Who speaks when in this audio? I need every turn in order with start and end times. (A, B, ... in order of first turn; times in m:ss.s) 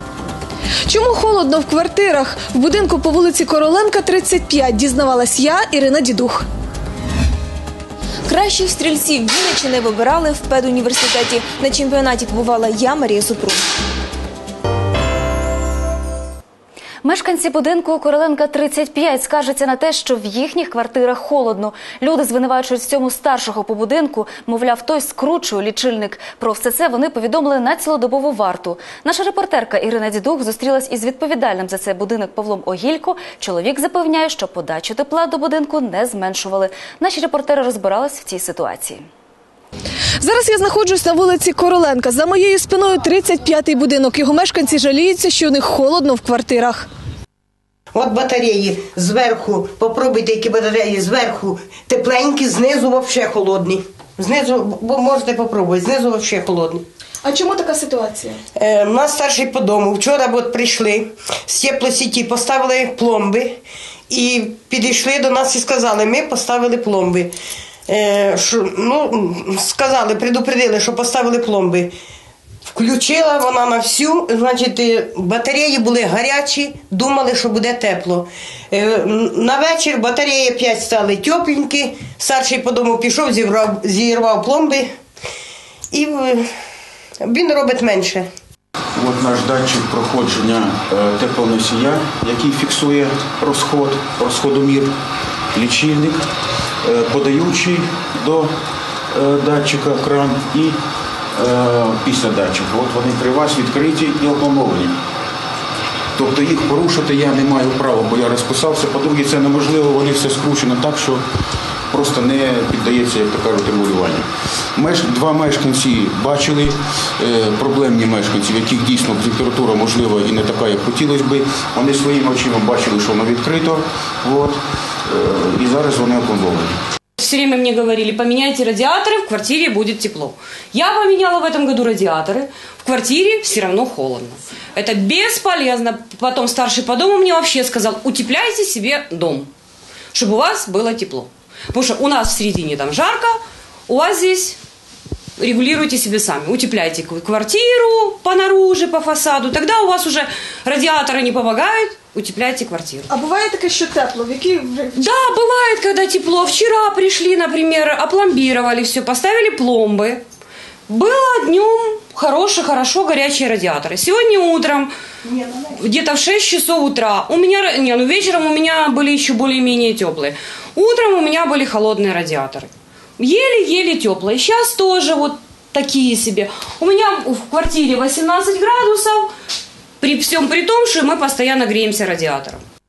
0:00.9-0:06.4 A
0:08.3-0:13.6 B
0:17.0-0:39.1 C
0:40.2-0:46.8 A
0:47.9-0:56.8 D
0:57.2-0:58.3 A
0:58.6-1:03.6 D
1:04.1-1:07.3 D
1:07.9-1:11.9 D
1:12.7-1:24.9 D
1:25.9-1:26.4 D
1:27.2-1:28.3 D
1:28.9-1:34.9 E
1:35.5-1:36.2 E
1:36.8-1:38.5 E
1:39.1-1:40.8 E
1:41.3-1:45.0 E
1:46.2-1:51.2 E
1:51.9-2:06.8 E
2:07.2-2:19.5 F
2:20.1-2:24.6 F
2:25.4-2:33.1 F
2:33.1-2:34.9 A
2:35.0-2:40.2 F
2:40.9-2:44.9 F
2:45.7-2:59.3 F
3:00.0-3:02.6 F